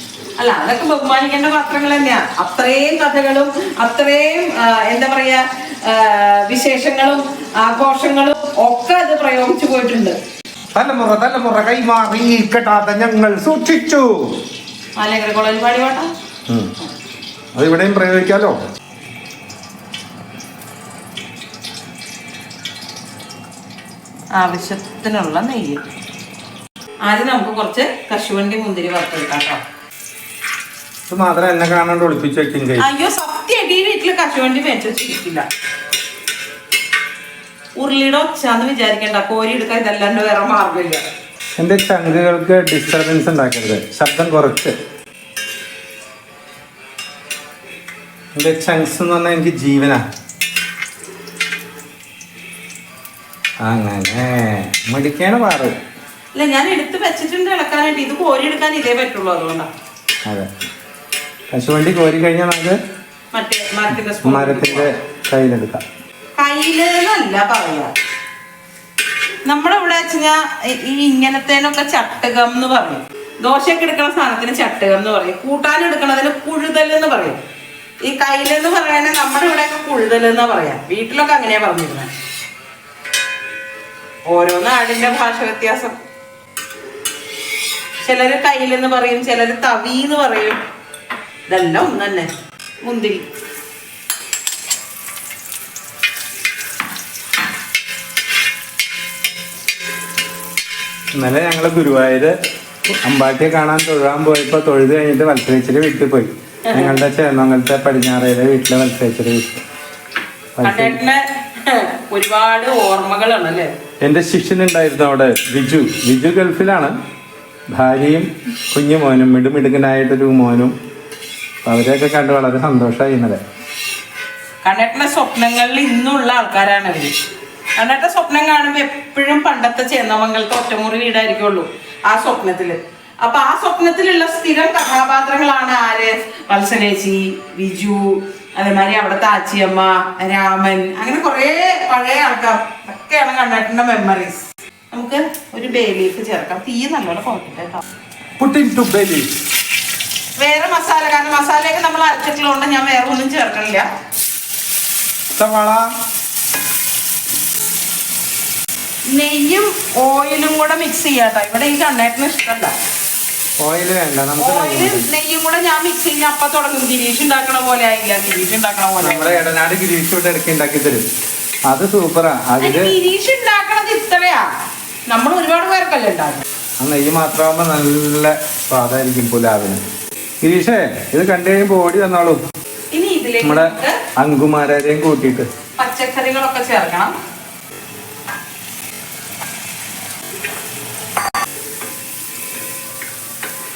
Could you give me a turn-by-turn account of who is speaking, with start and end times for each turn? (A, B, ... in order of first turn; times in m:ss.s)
0:00.4-0:10.2 A
0:10.7-0:14.2 B
0:15.0-0:16.1 A
0:17.5-0:18.5 B
0:24.3-0:25.8 A
0:27.0-0:29.6 A
0:31.1-0:32.9 B
0:32.8-0:35.4 A
0:37.8-0:41.0 A
0:41.6-0:44.7 B
0:48.3-0:50.0 B
0:53.6-0:55.8 B
0:56.3-0:59.7 A
1:01.5-1:02.8 B
1:03.3-1:04.9 A
1:04.2-1:05.8 B
1:06.4-1:07.9 A
1:09.4-1:17.4 A
1:18.0-1:22.1 A
1:24.3-1:26.0 A
1:28.0-1:30.6 A
1:31.5-1:32.3 A
1:32.8-1:33.2 A
1:41.2-1:42.3 B
1:42.9-1:49.6 B
1:46.7-1:47.0 A
1:50.5-1:51.0 B
1:50.6-1:53.7 A
1:54.0-1:56.9 B
1:57.7-2:00.7 B
2:01.6-2:03.4 B
2:04.6-2:07.1 A
2:07.8-2:27.8 A
2:28.4-2:29.3 B
2:30.4-2:33.8 A
2:35.3-2:35.9 B
2:39.1-2:42.7 A
2:43.6-2:45.0 B
2:44.4-2:49.4 A
2:49.0-2:51.0 B
2:51.7-2:52.9 B
2:52.6-2:54.5 A
2:55.1-2:56.4 A
2:56.8-2:59.9 B
3:00.4-3:02.4 B
3:02.9-3:04.0 A
3:03.4-3:05.5 B
3:05.8-3:07.1 A